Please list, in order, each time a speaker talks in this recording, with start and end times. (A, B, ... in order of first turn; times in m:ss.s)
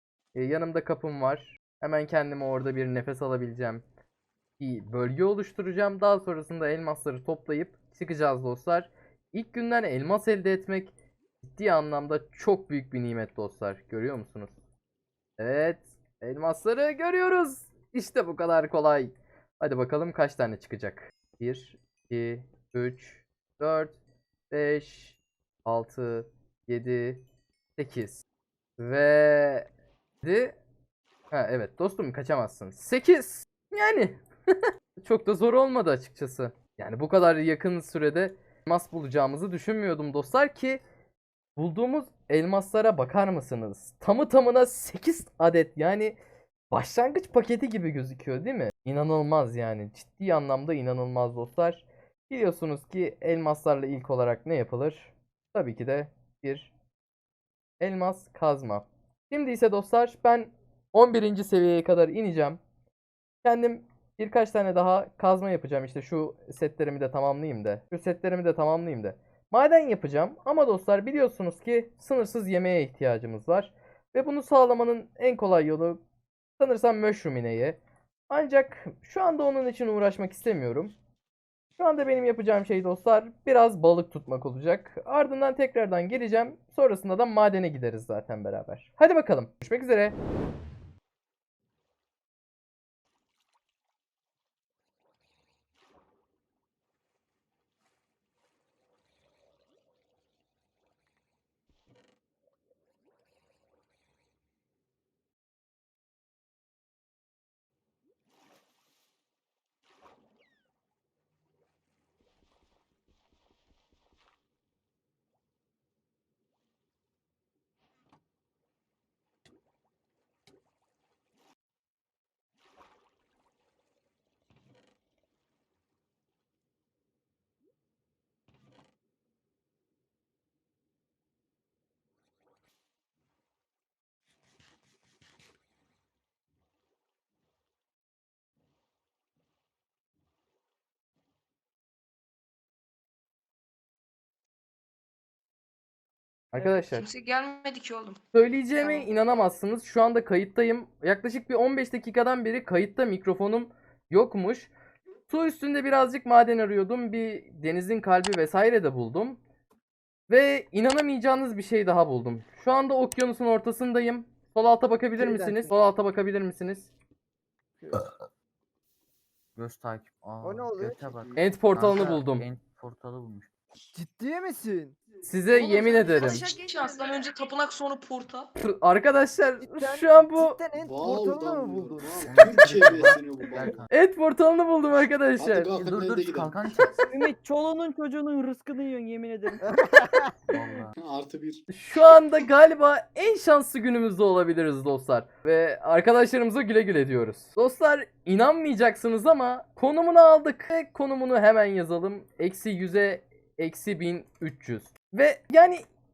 0:00.4-0:03.8 A
0:04.6-0:14.6 A
0:15.4-0:24.0 A
0:24.5-0:27.2 A
0:27.8-0:28.2 A
0:28.8-0:29.7 A
0:30.2-0:30.6 A
0:31.3-0:40.8 A
0:41.6-0:46.2 A
0:46.7-0:56.7 A
0:57.8-1:02.6 A
1:03.4-1:16.0 A
1:16.6-1:17.8 A
1:18.3-1:21.0 A
1:21.8-1:30.2 A
2:26.5-2:27.1 A
2:26.5-2:28.2 B
2:28.3-2:34.7 A
2:28.8-2:29.1 B
2:35.3-2:39.4 A
2:40.3-2:46.9 A
2:45.2-2:45.7 C
2:49.6-2:53.5 D
2:50.4-2:51.4 C
2:51.4-2:52.5 A
2:53.9-2:55.0 C
2:55.2-2:56.5 A
2:55.5-2:58.5 B
2:58.6-3:00.6 A
2:59.6-3:02.7 C
3:00.8-3:03.8 E
3:02.2-3:03.9 D
3:03.9-3:05.7 A
3:05.4-3:07.0 E
3:05.7-3:07.1 D
3:07.1-3:09.6 F
3:09.6-3:10.3 C
3:10.5-3:10.9 D
3:11.0-3:11.6 E
3:11.7-3:25.9 A